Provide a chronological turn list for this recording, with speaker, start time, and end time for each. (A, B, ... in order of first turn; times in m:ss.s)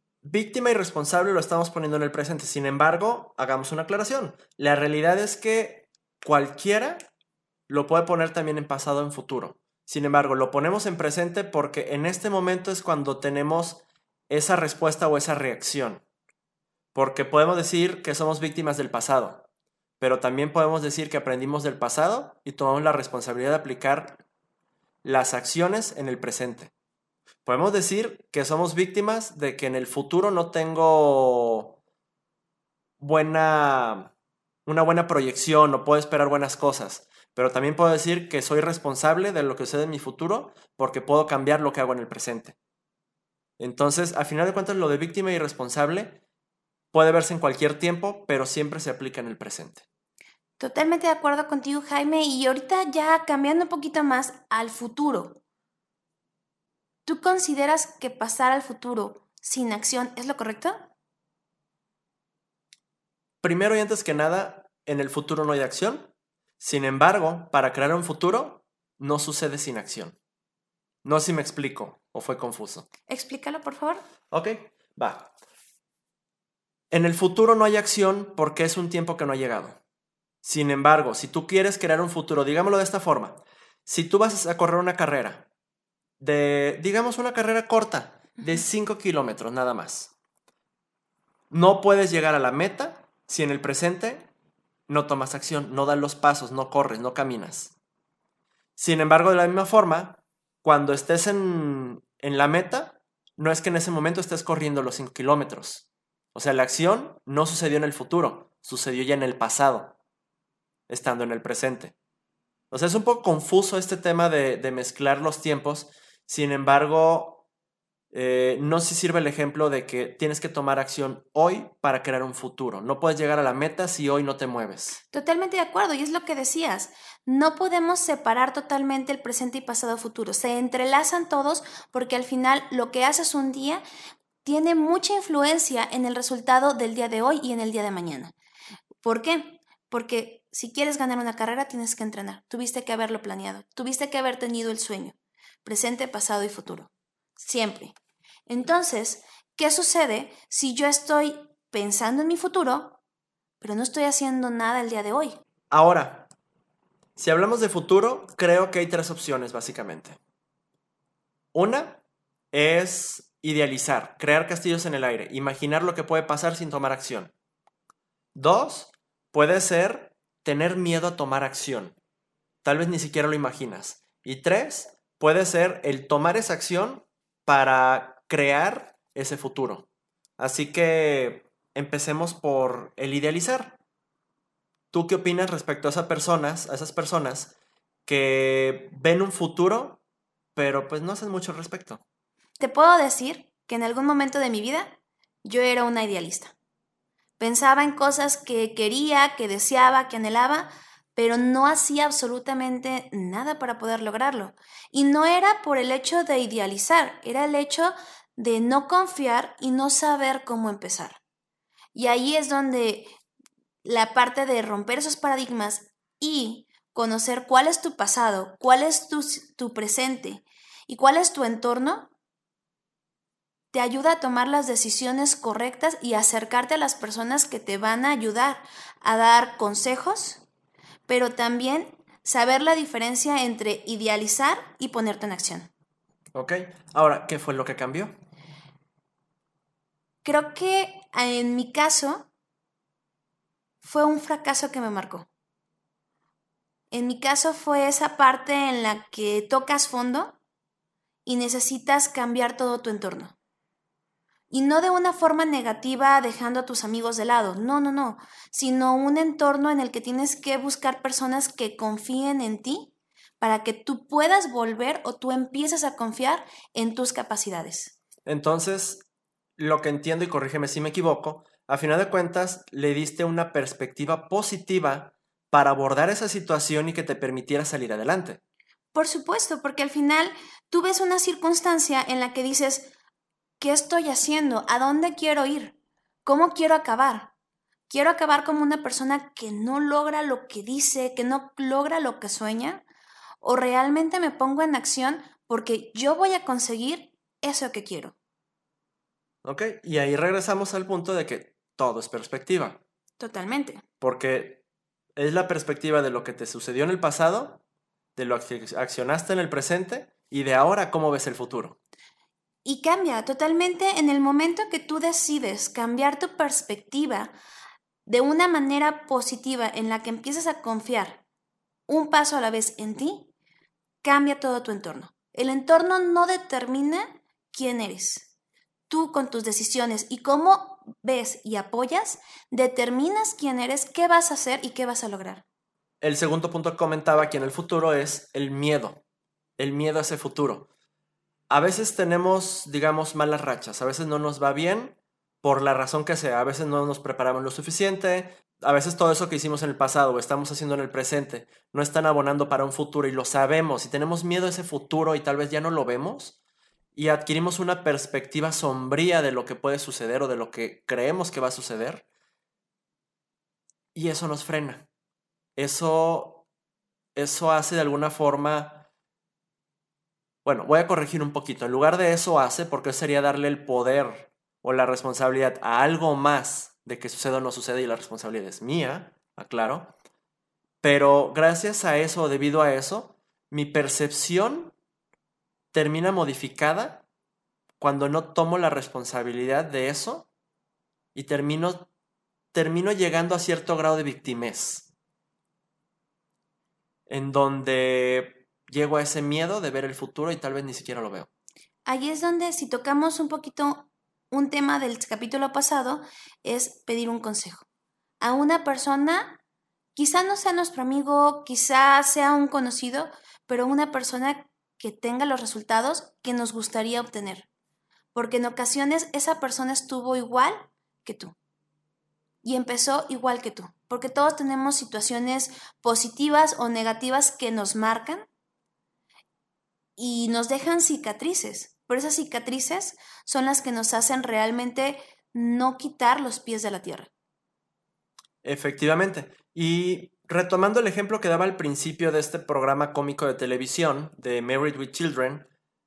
0:00.2-0:07.0 A
0:07.7-0:16.0 A
0:16.9-0:19.4 A
0:20.0-0:24.2 A
0:25.0-0:26.7 A
0:27.4-0:31.8 A
0:33.0-0:34.1 A
0:34.6-0:42.6 A
0:43.6-0:46.2 A
0:46.9-0:49.8 A
0:50.6-0:55.4 B
0:57.0-1:00.8 B
1:03.4-1:06.1 A
1:06.6-1:10.2 A
1:11.0-1:12.9 A
1:13.1-1:14.0 B
1:14.3-1:15.3 A
1:16.9-1:19.8 A
1:20.4-1:25.5 A
1:26.2-1:30.1 A
1:31.5-1:34.3 A
1:34.9-1:37.7 A
1:38.8-1:50.0 A
1:50.9-1:51.9 A
1:52.7-1:57.4 A
1:58.1-2:05.0 A
2:05.1-2:13.8 B
2:14.4-2:18.3 B
2:19.0-2:28.0 B
2:28.5-2:33.0 B
2:33.6-2:35.4 B
2:35.7-2:36.3 A
2:37.2-2:40.2 A
2:41.5-2:42.0 A
2:42.5-2:47.3 A
2:48.3-2:52.0 A
2:52.6-2:59.8 A
3:00.4-3:03.8 A
3:04.9-3:07.5 A
3:08.0-3:10.0 A
3:10.5-3:12.0 A
3:12.6-3:16.5 B
3:17.4-3:31.2 B
3:31.9-3:33.1 B
3:33.8-3:42.1 B
3:43.7-3:50.4 B
3:51.1-3:55.7 B
3:56.3-3:58.1 A
4:00.2-4:02.3 B
4:03.8-4:05.3 B
4:06.9-4:10.4 B
4:11.2-4:13.4 B
4:14.5-4:28.0 B
4:28.2-4:29.0 A
4:29.6-4:38.4 A
4:38.9-4:42.9 B
4:43.6-4:47.3 B
4:47.9-4:52.8 B
4:53.4-4:58.1 B
4:59.4-5:02.8 A
5:03.2-5:03.8 B
5:04.0-5:04.6 A
5:05.2-5:07.6 A
5:08.2-5:11.8 A
5:12.6-5:17.3 B
5:18.0-5:21.2 B
5:21.9-5:23.3 B
5:24.0-5:28.3 B
5:28.9-5:35.4 B
5:36.0-5:39.0 A
5:39.6-5:40.7 A
5:41.5-5:56.4 A
5:56.9-6:02.0 A
6:03.9-6:04.8 A
6:05.6-6:06.4 A
6:07.1-6:08.8 A
6:10.4-6:19.9 A
6:20.8-6:24.7 A
6:25.7-6:27.0 A
6:27.8-6:30.3 A
6:31.1-6:31.9 A
6:32.5-6:34.9 A
6:37.1-6:41.3 A
6:41.8-6:47.6 B
6:48.2-6:49.4 B
6:49.9-6:57.5 B
6:58.1-7:01.3 B
7:02.4-7:08.3 B
7:10.0-7:17.1 B
7:18.4-7:25.5 A